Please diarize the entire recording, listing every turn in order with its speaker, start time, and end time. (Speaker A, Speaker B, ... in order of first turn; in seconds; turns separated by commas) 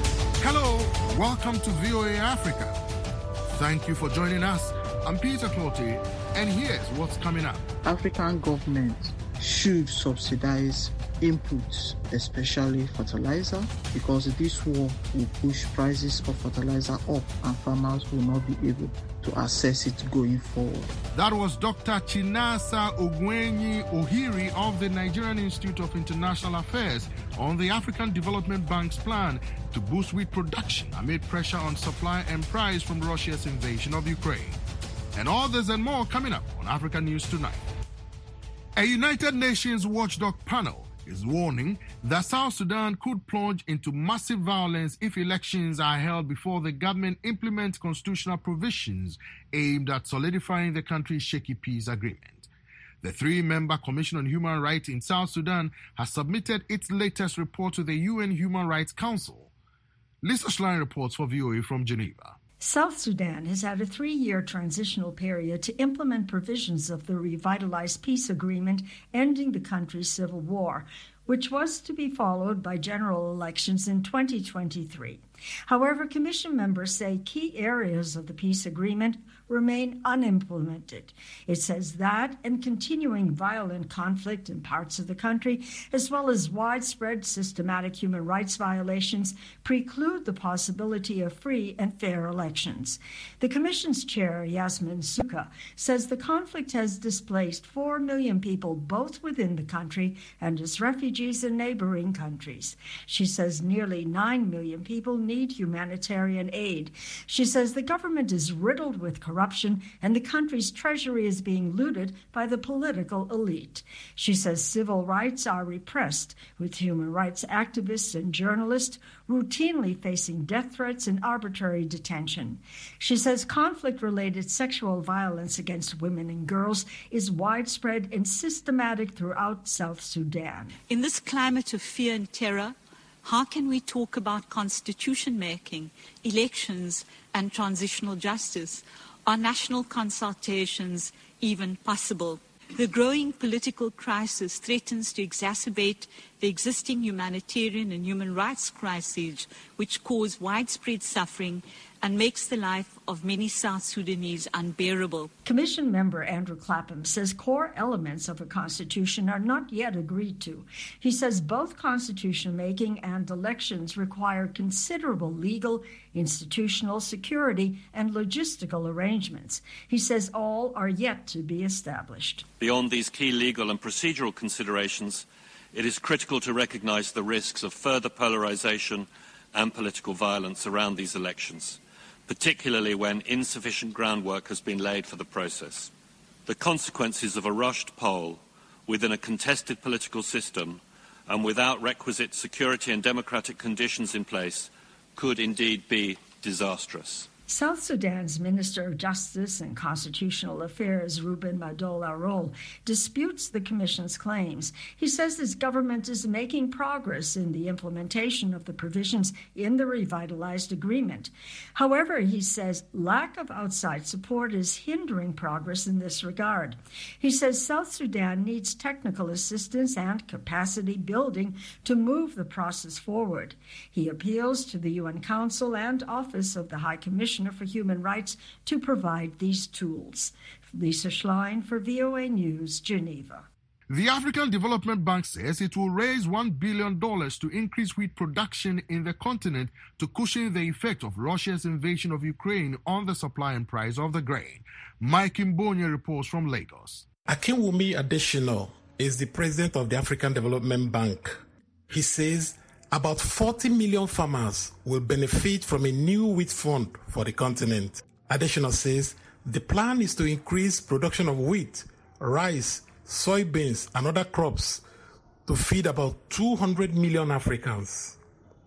Speaker A: 0.4-2.8, Speaker A: 3.5-7.7, Speaker B: 7.8-20.9, Speaker A: 21.1-34.6, Speaker A: 35.1-37.7, Speaker A: 38.8-52.5, Speaker A: 53.0-59.5, Speaker A: 60.2-62.4, Speaker C: 62.6-130.8, Speaker D: 130.9-155.3, Speaker C: 155.4-172.5, Speaker E: 172.6-185.9, Speaker E: 186.5-197.3, Speaker C: 197.5-233.5, Speaker A: 233.9-247.1, Speaker F: 247.3-264.8, Speaker F: 265.5-268.2